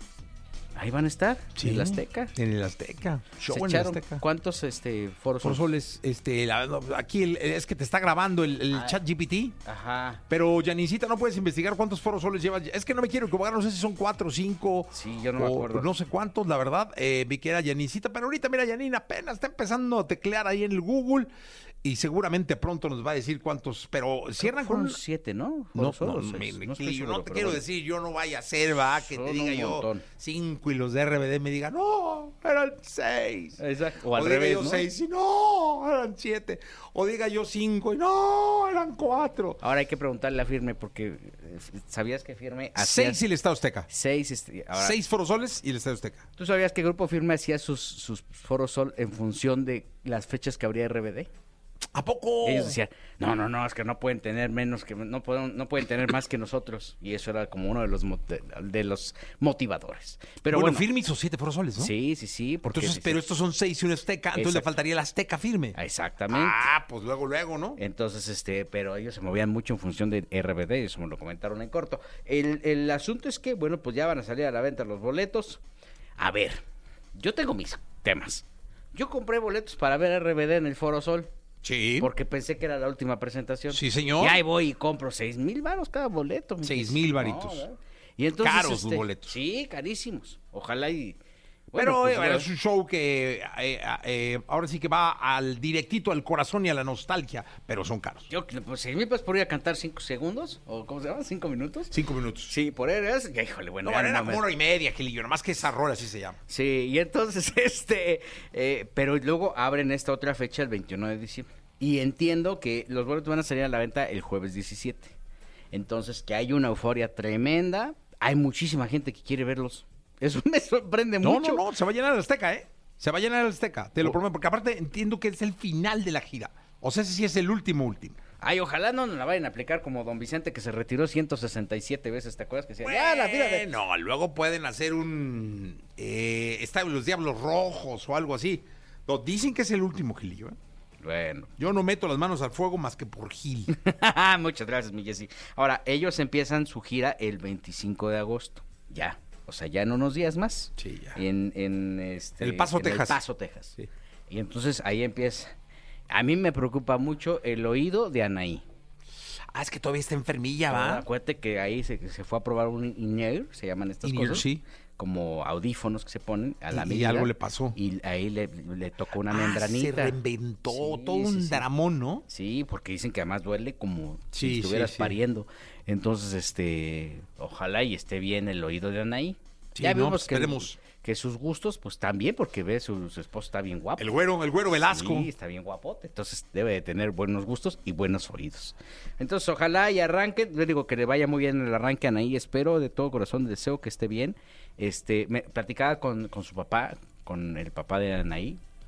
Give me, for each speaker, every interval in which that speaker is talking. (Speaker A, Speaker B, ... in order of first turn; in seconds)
Speaker A: 0.7-2.3, 3.5-5.6, 8.7-9.0, 9.6-10.2, 14.9-15.9, 24.4-27.6, 29.0-30.1, 33.6-34.9, 39.6-43.2, 43.9-45.0, 46.4-51.3, 52.4-60.9, 61.8-63.2, 64.3-64.7, 65.7-66.7, 67.8-75.6, 76.2-76.6, 77.1-81.3, 82.0-91.2, 91.7-92.5, 98.3-104.5, 106.5-115.2, 115.7-121.7, 128.4-133.7, 141.0-141.5, 143.7-153.8, 154.3-155.5, 156.1-158.6, 160.7-171.7, 172.3-184.2, 184.7-198.6
Speaker B: 1.6-4.2, 5.4-9.6, 10.3-21.3, 21.8-25.0, 25.7-33.6, 34.1-39.6, 42.8-43.9, 44.7-46.2, 51.9-52.8, 60.5-61.9, 62.6-65.8, 66.3-67.8, 81.6-82.1, 83.7-84.4, 86.6-87.7, 88.4-89.3, 91.7-98.3, 101.9-102.5, 103.8-106.4, 121.2-128.2, 132.8-140.6, 141.6-143.7, 150.8-151.2, 152.4-153.2, 159.5-161.1, 164.0-164.6, 166.7-167.8, 169.3-172.2, 174.3-175.2, 179.7-180.8, 184.0-185.3